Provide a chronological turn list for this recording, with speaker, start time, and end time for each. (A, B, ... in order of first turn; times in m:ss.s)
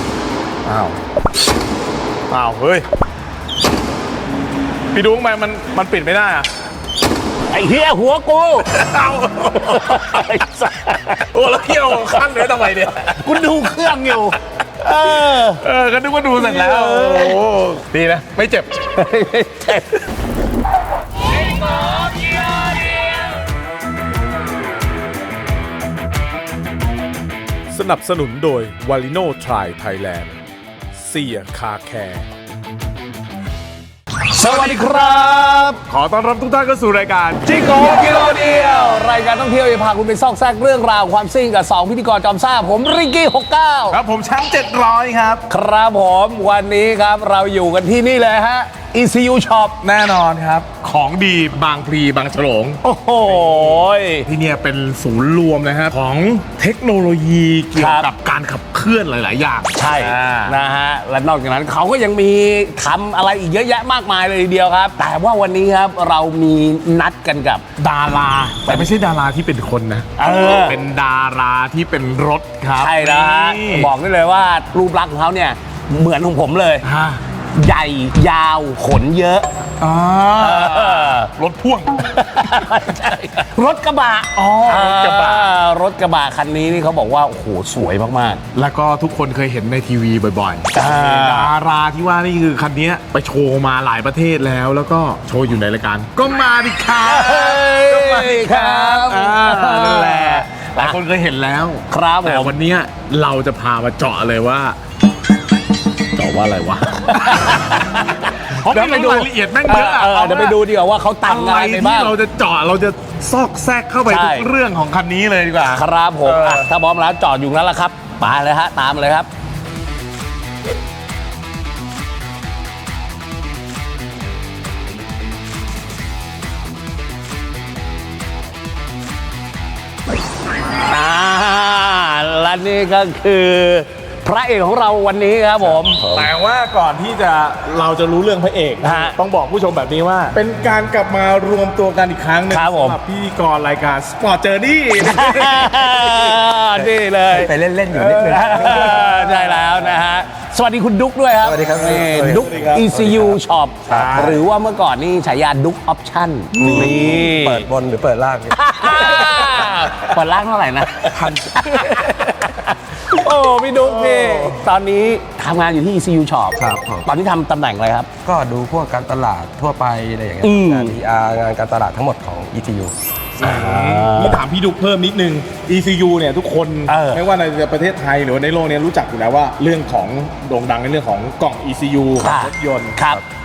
0:00.7-0:00.9 A
0:02.3-0:02.8 A
0:04.9-0:06.5 A
0:07.5-0:08.8 B
0:08.7-0:10.3 A
0:09.5-0:12.0 B
0:11.1-0:14.2 A
0:13.1-0:15.6 B
0:15.0-0:19.0 A
0:16.4-0:17.8 B
0:18.9-0:20.0 B
0:21.3-0:23.3 B
0:27.7-0:30.4 A
0:30.9-0:32.2 A
0:34.3-0:35.8 B
0:35.9-0:37.9 A
0:37.4-0:44.0 B
0:43.9-0:45.4 A
0:45.5-0:49.8 B
0:49.8-1:00.6 A
0:52.8-0:54.3 B
0:57.7-0:58.1 B
0:59.7-1:07.6 B
1:07.8-1:13.9 A
1:10.2-1:10.8 B
1:12.8-1:16.8 B
1:16.8-1:17.2 A
1:17.6-1:19.5 B
1:19.8-1:22.7 A
1:20.4-1:21.3 B
1:22.0-1:28.4 B
1:24.3-1:25.5 A
1:28.5-1:44.8 A
1:30.8-1:31.5 B
1:37.0-1:41.0 B
1:41.9-1:42.6 B
1:46.2-1:47.8 A
1:46.8-1:52.1 B
1:48.5-1:50.6 A
1:51.2-1:56.7 A
1:54.1-1:54.5 B
1:55.6-1:59.3 B
2:10.9-2:16.1 B
2:15.6-2:16.3 C
2:16.1-2:26.4 A
2:18.8-2:19.1 B
2:22.5-2:23.0 B
2:25.0-2:27.5 B
2:26.7-2:29.0 C
2:27.9-2:29.9 A
2:28.1-2:37.7 B
2:31.4-2:34.4 C
2:32.2-2:32.9 A
2:33.9-2:34.4 A
2:36.5-2:37.2 A
2:36.6-2:39.4 C
2:38.6-2:48.1 B
2:38.8-2:40.1 A
2:41.1-2:42.5 C
2:43.8-2:44.6 A
2:46.6-2:47.1 C
2:48.2-2:52.9 C
2:50.4-2:51.0 B
2:53.4-3:03.0 A
2:53.4-2:54.4 B
2:56.9-2:57.2 B
3:02.2-3:03.2 B